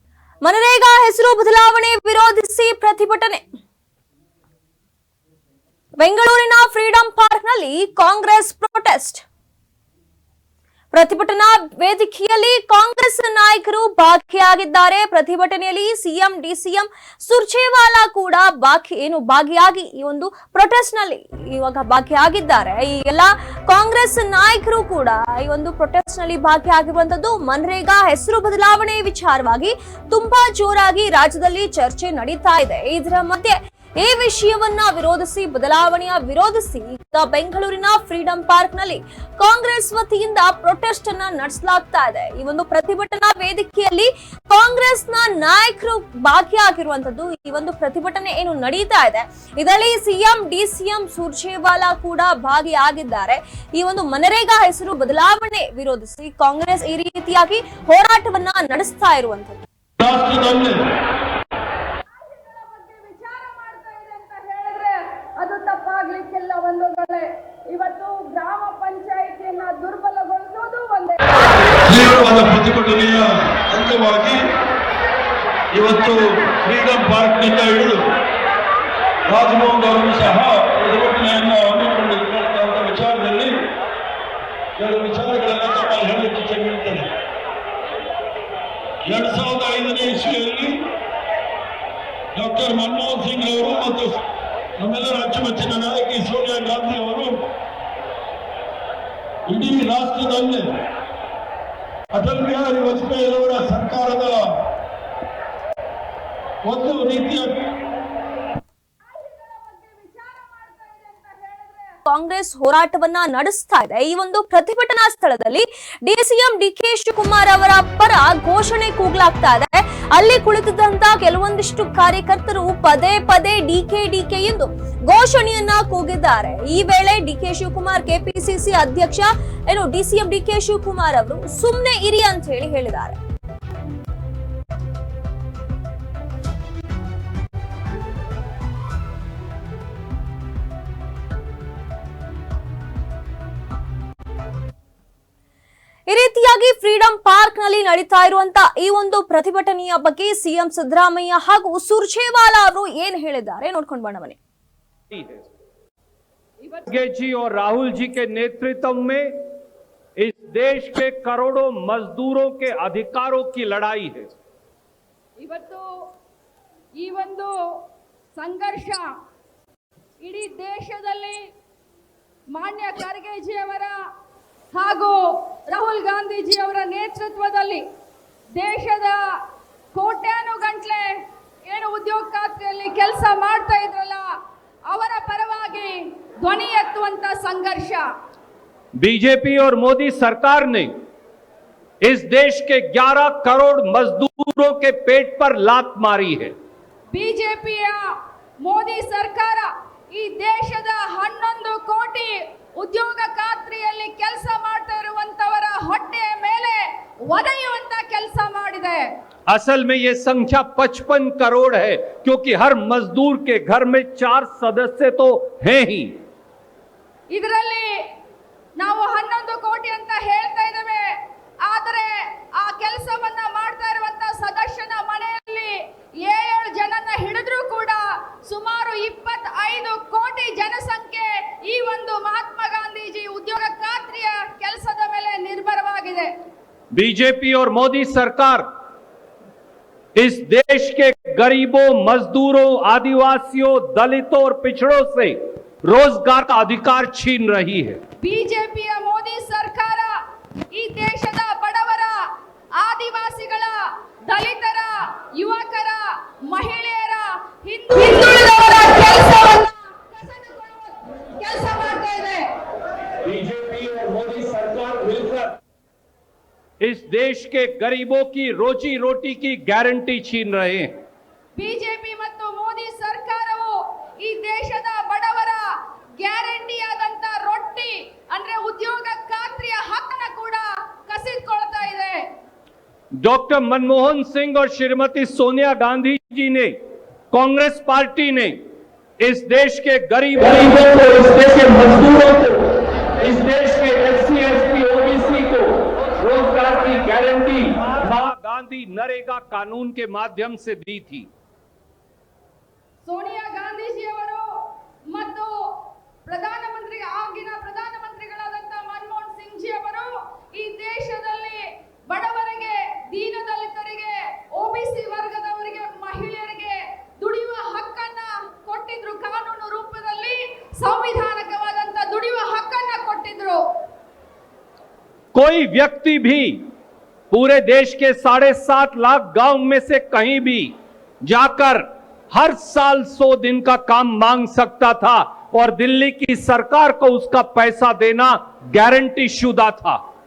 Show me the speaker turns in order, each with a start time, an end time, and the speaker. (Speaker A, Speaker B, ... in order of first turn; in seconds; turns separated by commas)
Speaker A: 0.4-3.4, Speaker A: 6.0-9.2, Speaker A: 10.9-59.6, Speaker B: 60.0-60.8, Speaker C: 62.1-71.4, Speaker B: 71.8-74.4, Speaker B: 75.7-78.0, Speaker B: 79.3-83.7, Speaker B: 84.8-87.1, Speaker B: 89.0-90.9, Speaker B: 92.3-94.2, Speaker B: 94.8-97.4, Speaker B: 99.5-100.7, Speaker B: 102.1-104.5, Speaker B: 106.6-107.5, Speaker C: 109.0-112.0, Speaker A: 112.1-133.2, Speaker A: 146.1-154.4, Speaker D: 155.1-155.5, Speaker C: 156.6-156.9, Speaker D: 156.9-159.3, Speaker D: 160.2-164.3, Speaker C: 165.4-165.8, Speaker C: 167.0-167.5, Speaker C: 168.3-169.1, Speaker C: 170.2-171.4, Speaker C: 172.5-173.9, Speaker C: 174.7-177.8, Speaker C: 178.5-179.2, Speaker C: 179.9-184.3, Speaker C: 184.9-188.0, Speaker D: 189.0-190.9, Speaker D: 192.0-196.5, Speaker C: 197.1-198.0, Speaker C: 198.6-209.1, Speaker D: 209.5-216.2, Speaker C: 217.3-218.0, Speaker C: 218.8-236.3, Speaker D: 236.9-238.7, Speaker D: 240.2-248.0, Speaker C: 248.2-250.1, Speaker C: 250.7-262.5, Speaker D: 263.3-264.7, Speaker C: 264.5-265.2, Speaker D: 266.8-270.9, Speaker C: 271.5-275.6, Speaker C: 276.2-282.3, Speaker D: 283.2-286.8, Speaker D: 287.3-288.6, Speaker D: 289.2-301.3, Speaker C: 303.0-304.4, Speaker C: 305.1-323.6, Speaker D: 325.3-326.6, Speaker D: 327.3-330.7, Speaker D: 331.2-340.0